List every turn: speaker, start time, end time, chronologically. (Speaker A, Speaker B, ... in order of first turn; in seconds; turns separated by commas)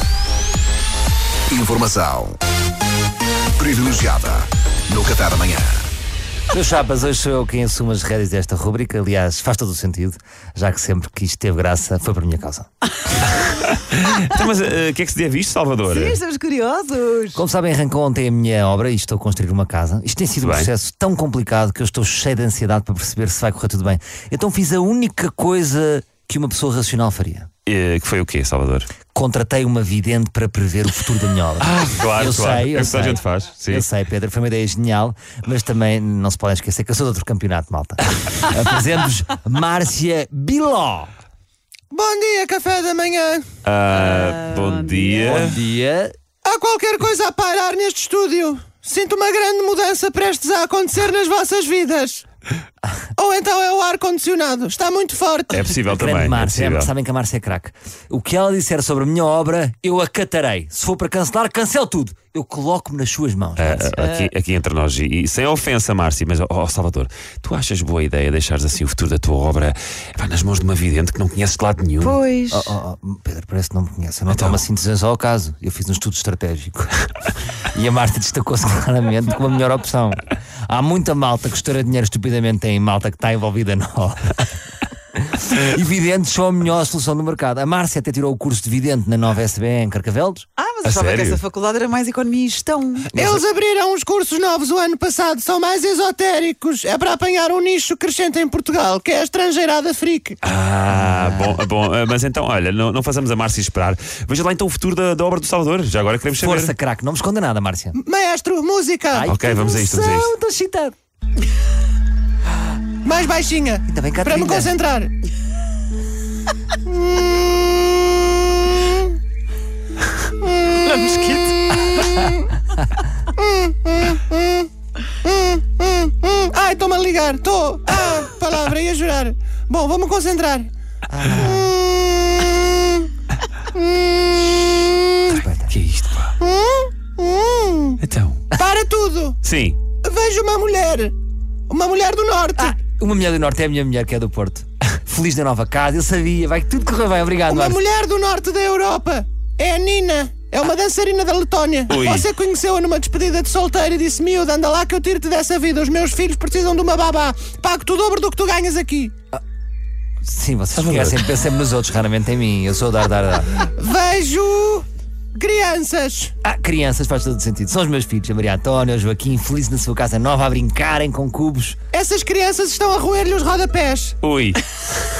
Speaker A: 1.5-2.4, Speaker A: 3.6-5.8, Speaker B: 6.5-12.7, Speaker C: 13.6-16.2, Speaker D: 15.9-17.4, Speaker B: 17.4-27.5, Speaker C: 20.4-20.7, Speaker C: 27.7-28.9, Speaker B: 29.1-41.1, Speaker C: 31.6-33.9, Speaker E: 41.9-43.5, Speaker C: 43.6-45.6, Speaker D: 43.9-45.5, Speaker B: 45.2-46.1, Speaker E: 46.4-52.2, Speaker E: 53.2-55.7, Speaker C: 55.5-56.9, Speaker B: 55.9-63.9, Speaker C: 63.6-72.2, Speaker D: 64.0-64.3, Speaker D: 72.0-72.8, Speaker B: 72.5-77.1, Speaker C: 74.3-74.6, Speaker B: 77.7-84.5, Speaker B: 85.2-90.5, Speaker D: 90.6-93.1, Speaker C: 90.8-91.4, Speaker E: 93.1-100.4, Speaker B: 93.2-93.4, Speaker C: 100.4-106.8, Speaker B: 100.9-101.6, Speaker B: 106.4-108.0, Speaker E: 107.9-109.3, Speaker B: 109.1-111.0, Speaker C: 109.2-110.3, Speaker E: 113.0-115.1, Speaker B: 113.9-114.7, Speaker E: 116.8-119.1, Speaker E: 120.3-122.5, Speaker D: 120.8-122.2, Speaker E: 123.3-124.7, Speaker E: 125.2-130.7, Speaker B: 131.1-131.7, Speaker E: 131.3-133.1, Speaker E: 133.7-135.4, Speaker B: 135.3-135.7, Speaker C: 135.3-136.3, Speaker E: 136.4-138.0, Speaker C: 138.0-138.5, Speaker E: 138.5-139.4, Speaker C: 139.4-139.8, Speaker E: 140.0-141.1, Speaker E: 141.7-142.8, Speaker B: 142.6-147.8, Speaker E: 147.5-159.1, Speaker C: 151.9-152.3, Speaker B: 160.2-163.6, Speaker C: 160.7-161.2, Speaker E: 163.6-166.3, Speaker B: 166.4-171.8, Speaker E: 171.9-174.2, Speaker C: 174.2-174.6